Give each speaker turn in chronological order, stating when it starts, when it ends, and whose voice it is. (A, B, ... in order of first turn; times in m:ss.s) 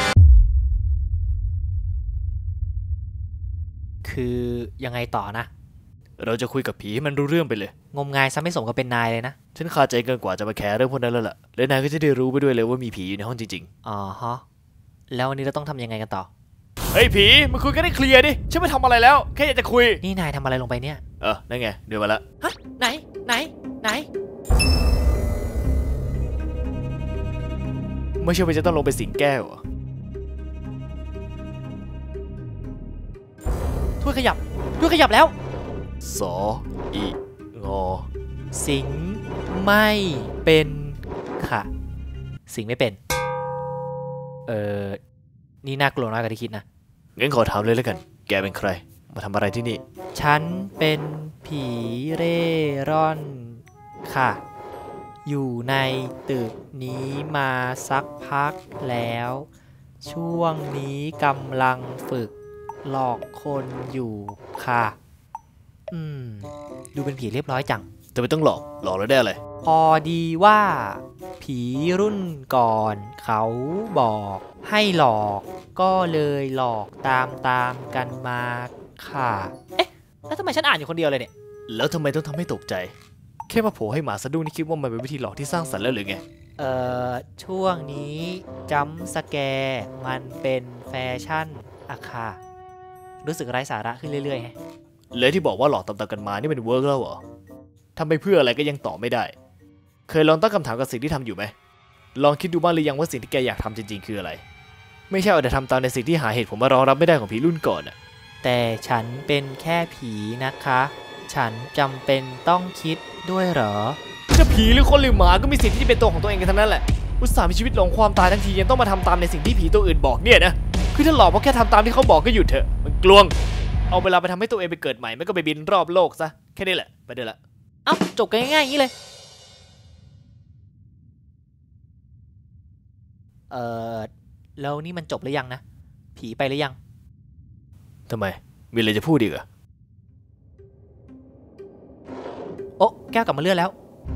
0:04.0-0:05.5 A
0:06.2-0:07.7 B
0:07.9-0:09.4 A
0:09.6-0:13.7 B
0:13.8-0:14.4 A
0:15.1-0:16.3 A
0:16.9-0:20.0 B
0:20.0-0:21.0 A
0:21.2-0:22.2 B
0:22.4-0:24.1 A
0:28.2-0:29.6 B
0:34.0-0:35.3 A
0:36.0-0:38.1 B
0:38.5-0:41.7 A
0:42.5-0:43.0 A
0:44.5-0:45.0 A
0:45.6-0:46.6 A
0:47.2-0:49.8 B
0:50.2-0:54.4 A
0:55.2-0:59.5 A
1:00.0-1:02.3 A
1:02.8-1:05.0 A
1:05.9-1:07.9 A
1:08.2-1:09.4 B
1:09.6-1:21.3 A
1:21.7-1:22.9 B
1:23.5-1:26.2 B
1:26.6-1:32.4 A
1:33.2-1:34.6 A
1:35.1-1:37.2 B
1:38.0-1:39.3 B
1:40.1-1:41.5 B
1:42.2-1:44.4 B
1:45.1-1:48.0 B
1:48.4-1:54.0 A
1:54.3-2:03.4 B
2:03.9-2:07.4 B
2:07.9-2:08.9 A
2:13.5-2:15.6 A
2:16.2-2:16.8 A
2:18.1-2:19.4 B
2:22.8-2:23.7 A